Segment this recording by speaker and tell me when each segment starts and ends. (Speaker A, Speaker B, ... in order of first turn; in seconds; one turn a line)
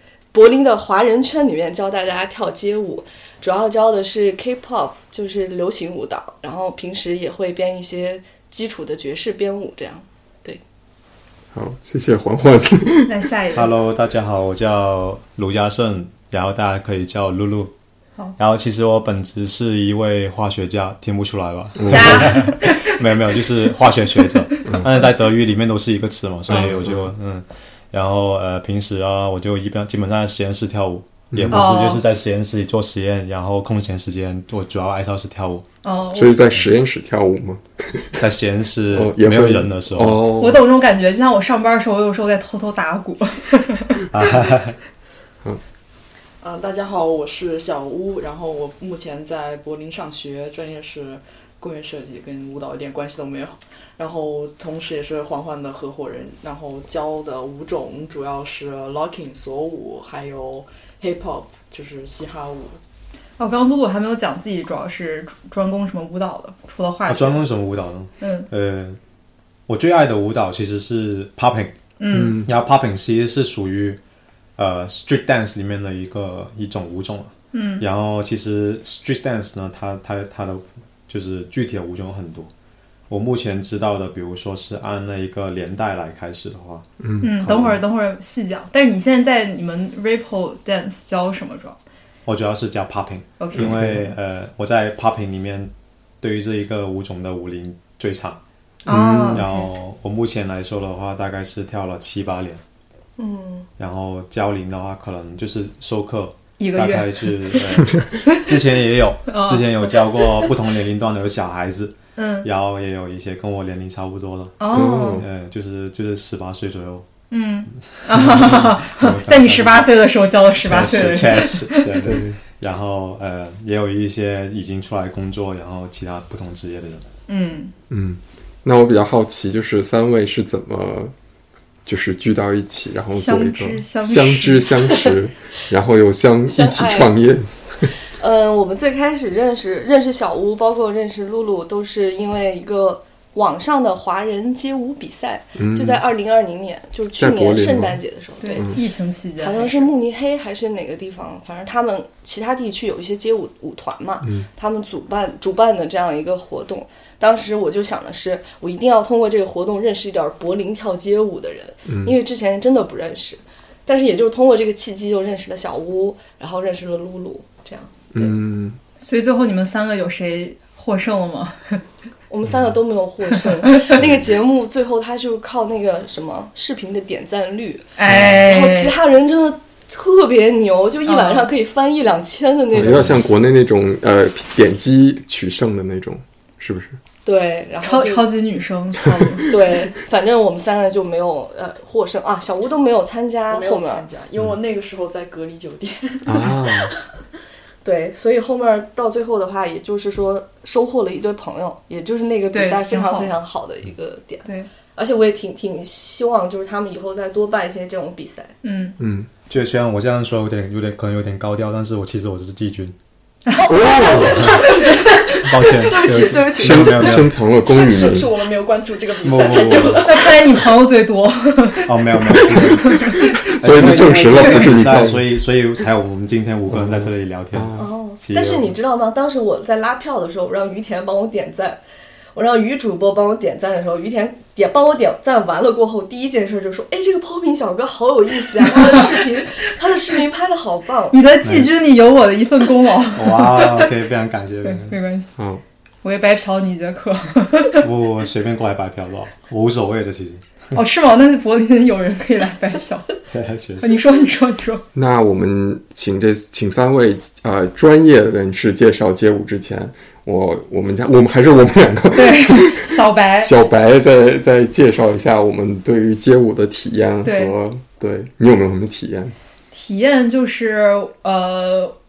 Speaker A: 0.3-10.6
Speaker B: 11.5-13.1
Speaker C: 13.1-13.7
Speaker D: 13.5-17.7
Speaker D: 18.4-35.6
Speaker B: 21.8-22.4
Speaker C: 21.9-22.9
Speaker B: 26.5-27.1
Speaker C: 26.5-26.8
Speaker B: 31.3-31.7
Speaker C: 31.5-32.0
Speaker C: 35.8-36.4
Speaker B: 36.1-38.2
Speaker D: 38.2-40.2
Speaker B: 38.9-40.6
Speaker C: 40.4-44.1
Speaker D: 44.1-44.7
Speaker E: 46.4-62.8
Speaker C: 63.4-67.4
Speaker D: 67.1-69.0
Speaker C: 68.2-68.5
Speaker D: 69.7-71.7
Speaker C: 72.0-72.4
Speaker B: 72.1-72.5
Speaker D: 72.3-74.0
Speaker D: 74.6-82.5
Speaker C: 77.5-77.8
Speaker D: 83.1-87.8
Speaker C: 87.2-91.8
Speaker D: 92.2-98.4
Speaker C: 93.4-93.7
Speaker B: 93.5-94.1
Speaker B: 98.8-99.4
Speaker C: 98.9-99.7
Speaker D: 98.9-102.6
Speaker A: 103.2-103.7
Speaker D: 103.8-117.0
Speaker C: 106.6-107.7
Speaker C: 109.3-110.5
Speaker C: 112.2-112.5
Speaker C: 114.6-115.2
Speaker B: 114.7-115.2
Speaker C: 117.3-122.1
Speaker D: 118.1-127.0
Speaker B: 122.0-122.4
Speaker C: 127.3-127.7
Speaker B: 127.9-131.1
Speaker B: 131.8-137.9
Speaker C: 133.1-135.1
Speaker A: 136.5-137.1
Speaker A: 138.2-148.8
Speaker B: 145.6-146.0
Speaker B: 147.2-148.0
Speaker C: 148.4-149.9
Speaker A: 149.4-168.3
Speaker B: 161.9-162.2
Speaker B: 168.1-168.8
Speaker C: 169.0-171.8
Speaker A: 172.3-183.1
Speaker C: 173.5-173.9
Speaker C: 178.0-178.9
Speaker C: 181.1-181.5
Speaker B: 182.7-187.0
Speaker A: 187.2-188.3
Speaker C: 187.8-189.5
Speaker A: 189.4-194.1
Speaker E: 193.5-196.7
Speaker B: 196.2-196.9
Speaker A: 197.8-208.5
Speaker C: 202.5-203.4
Speaker C: 208.6-209.0
Speaker B: 209.0-209.3
Speaker D: 209.5-212.9
Speaker C: 213.5-213.8
Speaker B: 213.7-214.5
Speaker A: 214.1-217.2
Speaker D: 214.1-214.7
Speaker D: 215.3-217.4
Speaker B: 216.6-218.3
Speaker E: 217.6-220.5
Speaker D: 219.2-220.1
Speaker C: 220.0-223.4
Speaker D: 221.8-223.0
Speaker B: 222.3-225.3
Speaker D: 223.6-228.7
Speaker C: 224.3-224.7
Speaker B: 226.7-227.9
Speaker A: 227.8-231.8
Speaker A: 232.3-241.2
Speaker C: 238.6-239.2
Speaker C: 241.1-243.9
Speaker D: 241.4-241.8
Speaker D: 243.2-244.9
Speaker C: 244.6-245.4
Speaker B: 245.4-245.6
Speaker C: 246.0-247.8
Speaker D: 247.8-250.4
Speaker C: 250.7-253.1
Speaker D: 253.3-253.9
Speaker C: 253.8-254.8
Speaker B: 254.9-269.3
Speaker C: 262.1-263.5
Speaker C: 267.2-267.5
Speaker C: 269.7-271.9